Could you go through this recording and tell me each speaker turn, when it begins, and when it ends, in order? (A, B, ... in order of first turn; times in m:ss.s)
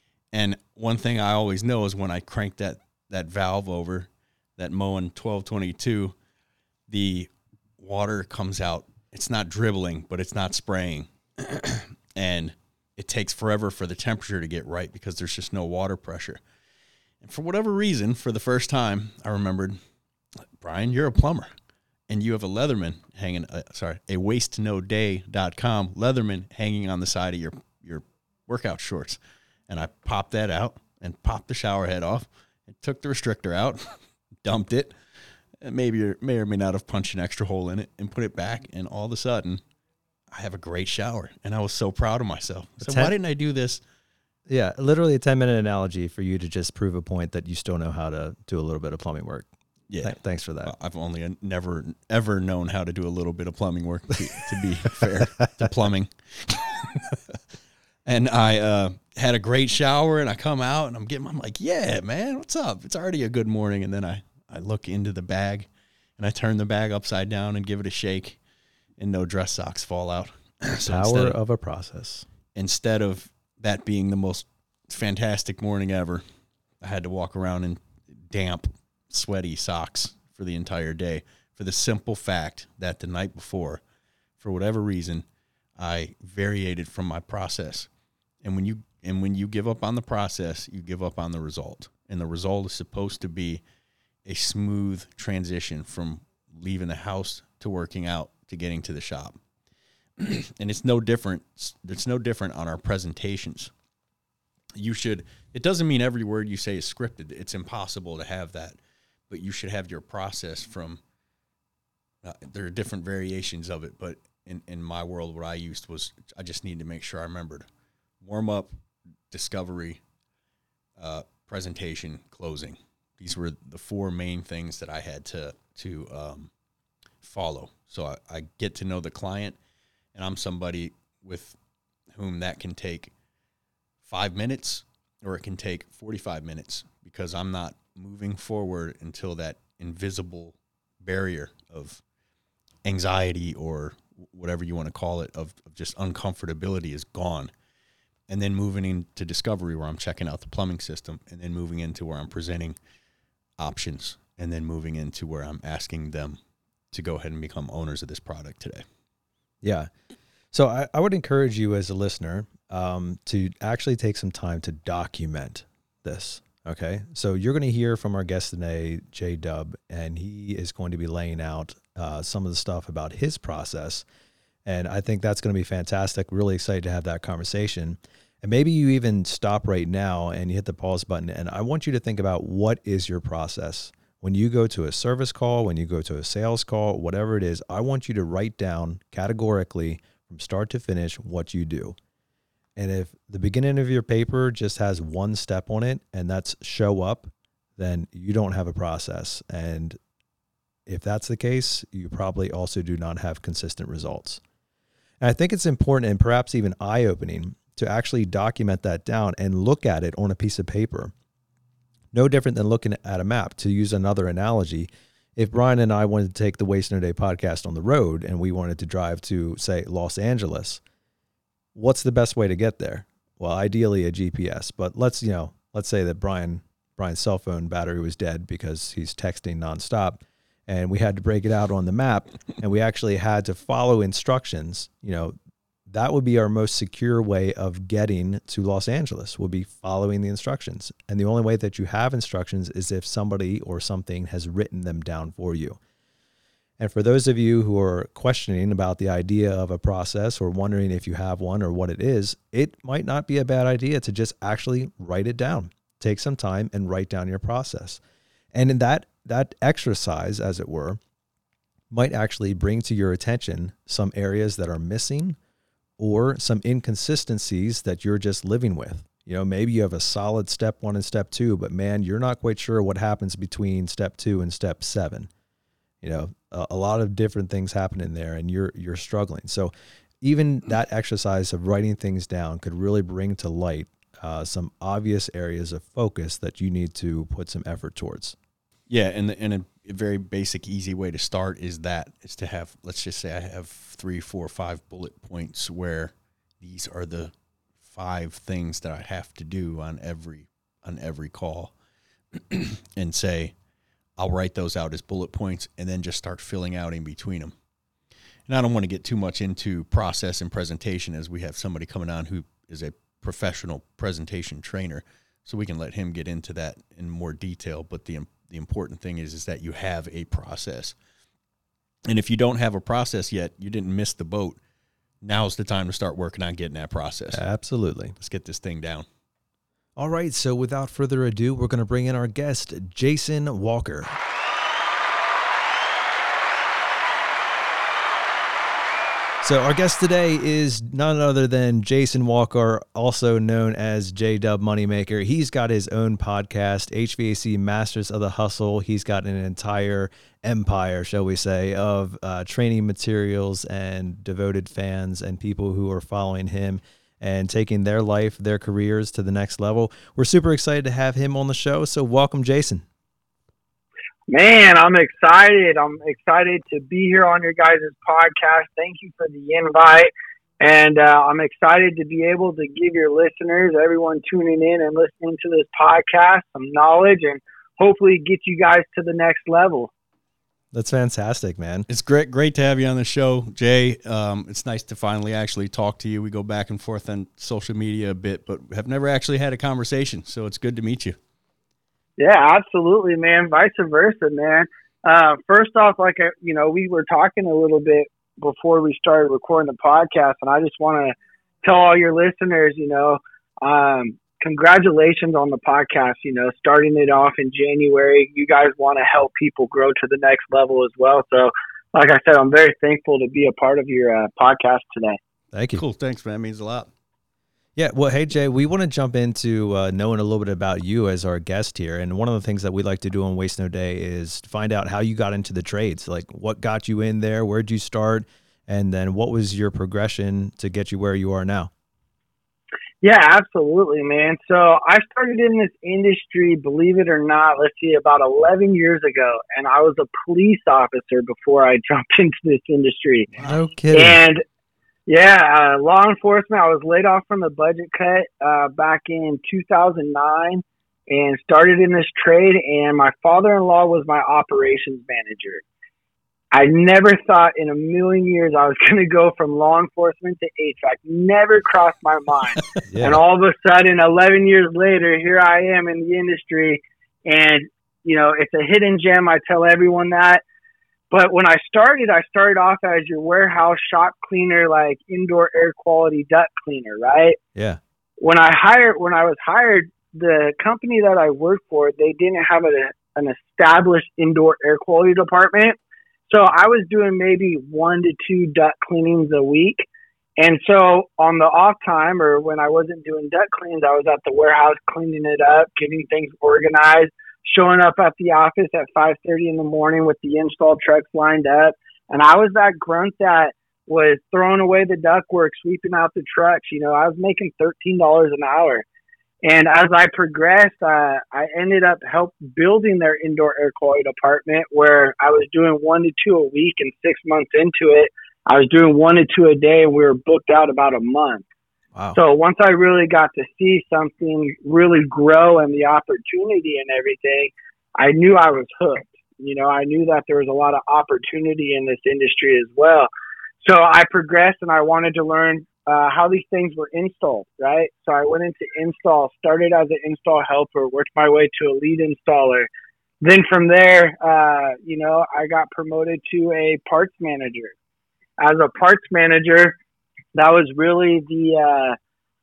0:00.3-0:06.2 A
0:06.9-0:16.4 A
0:17.2-0:19.8 A
0:20.6-0:21.5 A
0:22.1-0:34.9 A
0:35.6-0:39.6 A
0:40.3-0:43.8 A
0:42.8-0:43.1 B
0:44.5-0:49.5 B
0:49.9-0:50.1 A
0:50.0-0:50.7 B
0:50.6-0:57.2 A
0:58.0-1:08.4 A
1:09.0-1:11.4 A
1:10.8-1:12.2 B
1:12.5-1:16.2 A
1:16.8-1:23.8 A
1:24.4-1:25.2 A
1:25.8-1:27.9 A
1:28.4-1:33.6 A
1:34.2-1:39.4 A
1:40.2-1:43.7 A
1:44.8-1:48.8 A
1:49.3-1:51.0 A
1:52.2-1:57.6 A
1:58.2-1:58.7 A
1:59.3-2:00.0 A
2:01.0-2:06.5 A
2:07.2-2:09.6 A
2:10.1-2:11.6 A
2:12.1-2:13.1 A
2:14.1-2:22.0 A
2:22.8-2:27.5 A
2:28.3-2:32.7 A
2:33.6-2:36.4 A
2:36.9-2:38.8 A
2:39.6-2:39.9 B
2:40.5-2:54.0 B
2:54.6-3:12.0 B
3:12.8-3:20.0 B
3:20.9-3:24.4 B
3:25.2-3:31.1 B
3:32.1-3:40.8 B
3:41.7-3:55.3 B
3:55.9-4:05.8 B
4:06.8-4:18.0 B
4:18.5-4:21.0 B
4:21.9-4:25.4 B
4:26.0-4:35.3 B
4:36.0-4:39.7 B
4:40.2-4:48.4 B
4:48.9-4:57.3 A
4:57.9-5:01.7 A
5:02.3-5:03.5 A
5:04.2-5:07.5 A
5:08.5-5:20.9 A
5:22.1-5:24.6 A
5:25.2-5:27.4 A
5:27.3-5:28.1 B
5:28.2-5:29.0 A
5:30.0-5:34.2 B
5:39.4-6:02.8 B
6:04.3-6:10.1 C
6:10.6-6:19.9 C
6:20.7-6:21.8 B
6:21.9-6:31.2 A
6:32.2-6:55.2 C
6:55.5-6:55.8 B
6:55.7-6:56.9 A
6:57.8-7:11.7 B
7:13.0-7:23.4 C
7:23.4-7:24.2 B
7:23.9-7:24.4 C
7:25.1-7:35.6 C
7:36.5-7:50.4 C
7:42.9-7:43.2 B
7:51.1-7:57.4 C
7:57.5-7:57.8 B
7:58.2-8:05.8 C
8:06.3-8:09.8 C
8:10.4-8:28.8 C
8:29.4-8:41.4 C
8:42.1-8:53.1 C
8:53.6-9:02.7 C
9:03.2-9:07.7 C
9:08.4-9:09.8 C
9:10.3-9:12.0 C